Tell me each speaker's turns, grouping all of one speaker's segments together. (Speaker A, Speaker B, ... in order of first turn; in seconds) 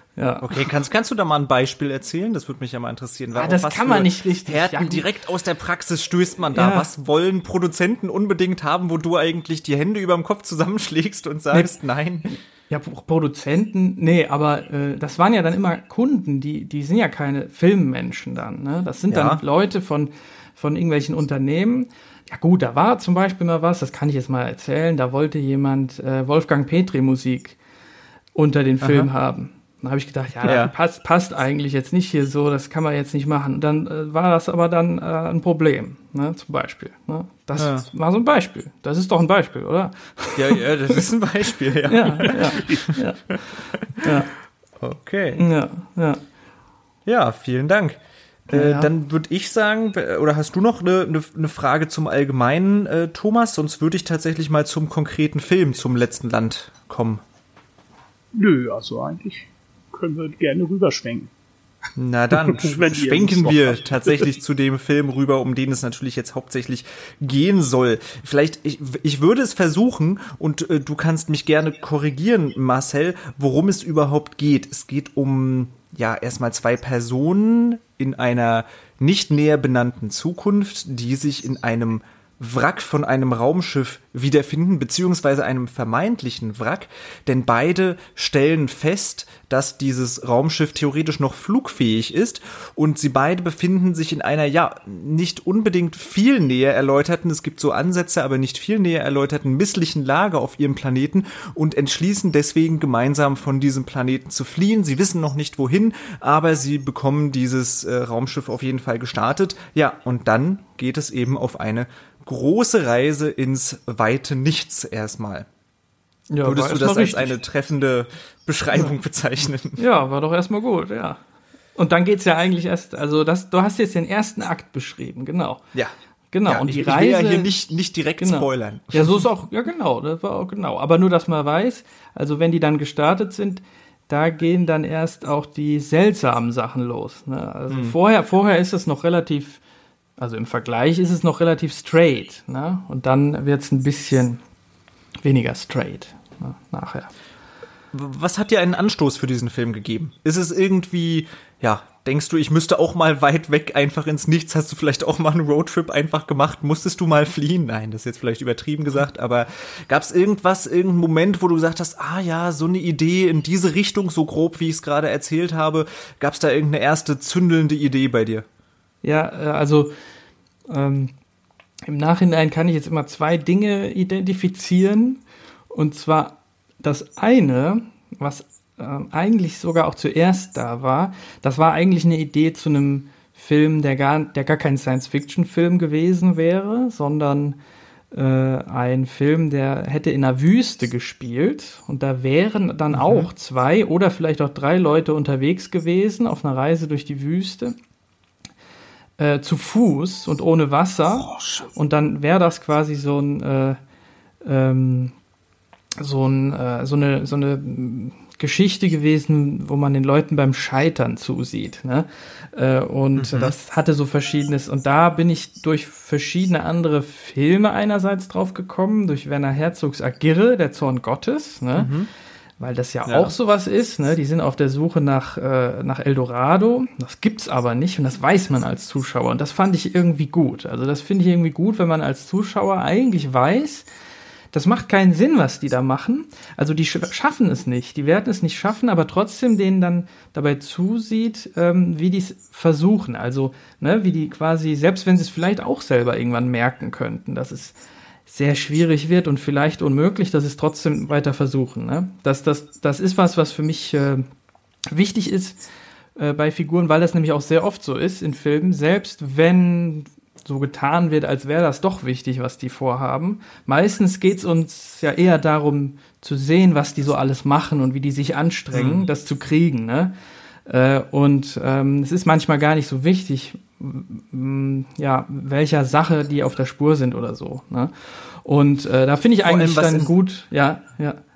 Speaker A: 0.2-0.7, 3.4-5.1, 6.5-6.9, 12.7-27.6, 28.4-41.0, 41.9-44.3, 45.4-46.2, 48.5-48.9, 116.3-117.4, 119.8-121.2, 121.8-125.6, 126.3-127.5, 128.2-139.6, 140.2-144.4, 145.2-147.1, 169.0-169.9, 170.7-171.1, 171.9-175.2, 175.7-187.6, 188.1-197.8, 199.2-203.8, 204.4-205.1, 206.0-221.9, 222.6-233.9, 234.5-254.3, 254.9-255.6, 256.2-270.1, 270.7-281.2
Speaker B: 0.4-12.4, 19.1-19.4, 28.8-29.1, 30.4-30.7, 37.6-37.9, 40.4-44.0, 44.8-45.4, 47.1-57.2, 62.0-115.5, 116.4-119.8, 126.5-129.3, 137.7-137.9, 147.9-168.5, 192.9-193.3, 201.3-201.6, 213.2-213.5, 221.8-222.1, 223.1-223.3, 268.7-269.0, 279.4-280.1
Speaker C: 42.5-42.8, 58.3-61.3, 62.5-64.3